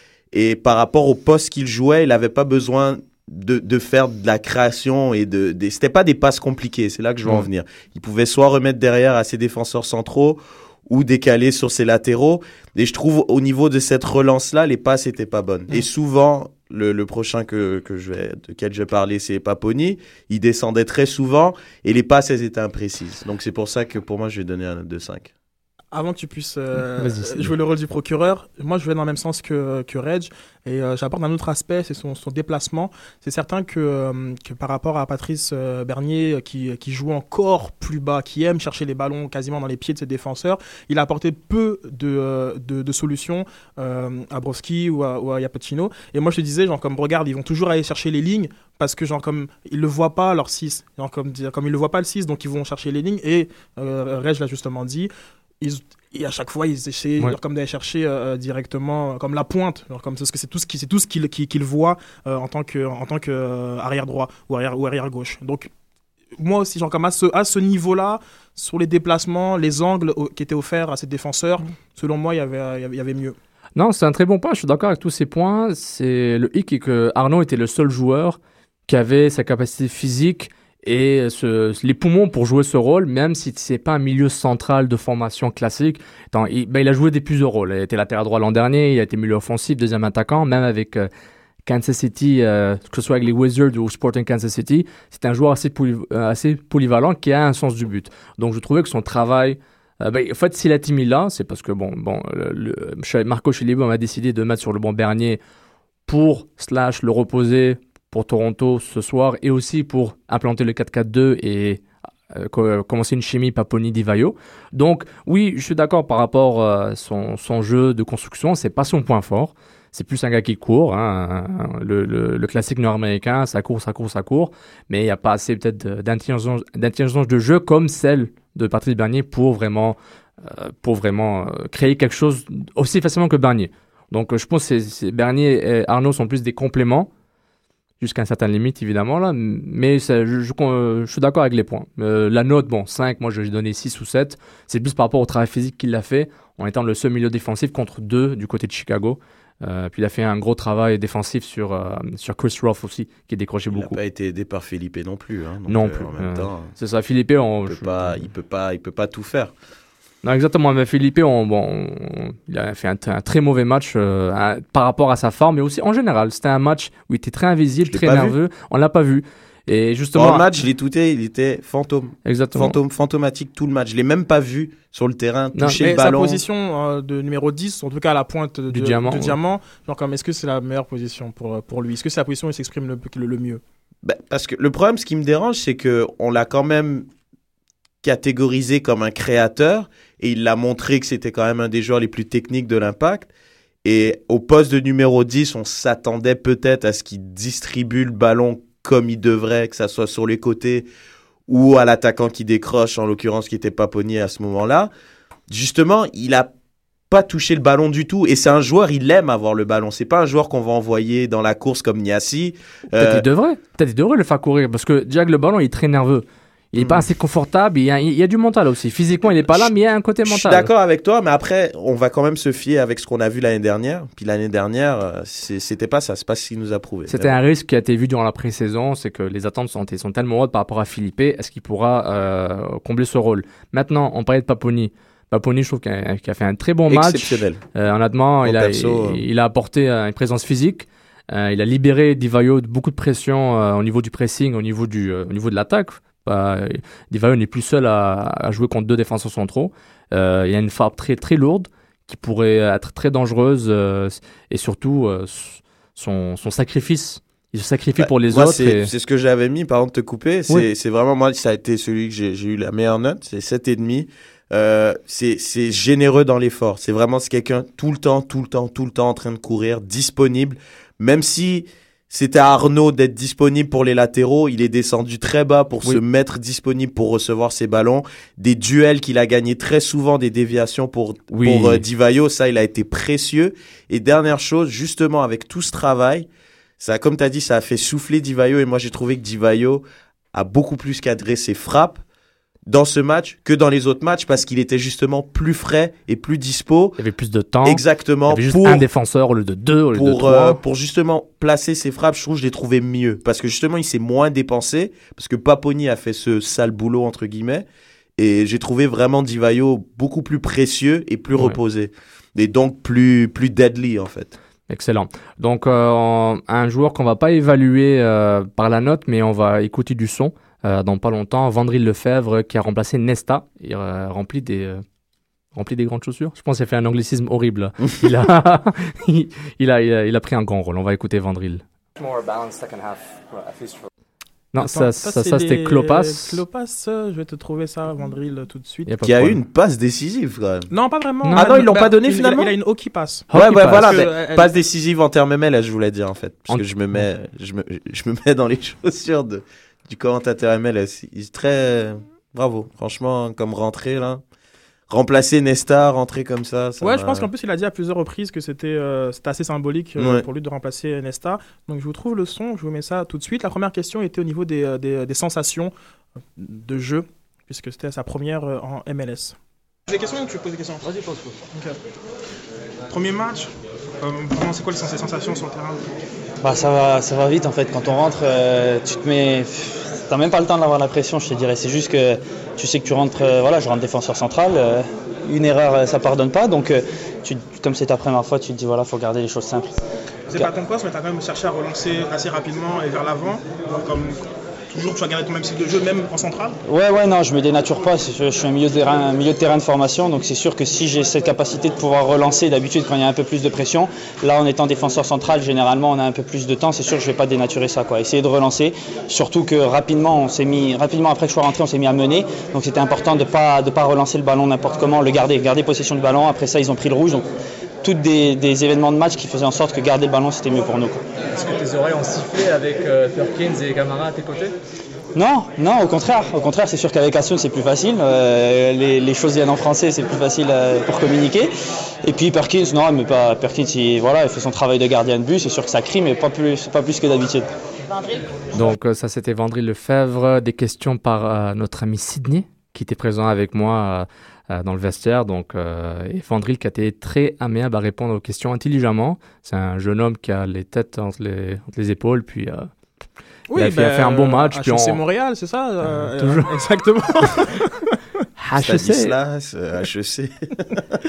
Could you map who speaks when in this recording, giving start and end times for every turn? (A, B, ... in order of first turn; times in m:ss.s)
0:00.3-0:25.3 A
0:25.9-1:05.7 B
0:27.0-0:27.5 C
1:06.4-1:13.3 B
1:13.8-1:31.1 C
1:31.6-1:45.4 C
1:46.1-2:17.1 C
2:18.0-2:34.0 C
2:33.7-2:36.7 A
2:35.7-2:38.2 C
2:37.6-2:39.5 A
2:40.2-2:50.4 C
2:47.9-2:48.4 A
2:50.1-2:56.4 A
2:52.2-2:52.8 C
2:55.5-2:55.9 C
2:55.8-3:03.6 B
2:58.7-2:59.4 C
3:04.0-3:07.0 A
3:08.0-3:13.3 A
3:13.8-3:20.9 A
3:21.5-3:24.9 A
3:25.5-3:26.5 A
3:27.1-3:33.2 A
3:32.9-3:40.7 C
3:36.8-3:37.0 A
3:40.2-3:47.4 A
3:47.1-4:18.9 C
3:56.9-3:57.6 A
3:58.4-3:59.2 A
4:18.0-4:46.3 A
4:41.3-4:41.8 C
4:46.8-4:52.0 A
4:52.7-4:57.0 A
4:57.0-5:00.6 C
4:57.6-4:58.8 A
4:59.9-5:07.6 A
5:08.2-5:14.3 A
5:11.3-5:11.6 C
5:14.7-5:24.8 C
5:25.5-5:33.9 C
5:34.5-5:36.4 C
5:34.6-5:38.9 B
5:38.8-5:39.4 C
5:39.0-5:40.7 A
5:40.7-5:44.5 B
5:41.2-5:41.7 C
5:41.3-5:42.5 A
5:43.3-5:43.9 C
5:43.3-5:54.2 A
5:46.5-5:47.0 C
5:54.9-5:57.3 A
5:56.8-6:05.7 B
6:06.4-6:09.4 B
6:09.9-6:10.8 B
6:12.9-6:15.8 B
6:16.4-6:29.7 D
6:30.3-6:36.6 B
6:36.7-6:57.3 D
6:57.8-7:01.0 D
7:01.3-7:04.5 E
7:05.1-7:11.5 D
7:12.0-7:17.5 D
7:18.5-7:32.7 C
7:33.5-7:37.7 B
7:33.5-7:35.0 C
7:36.2-7:36.5 C
7:38.4-7:39.1 C
7:38.5-7:40.8 A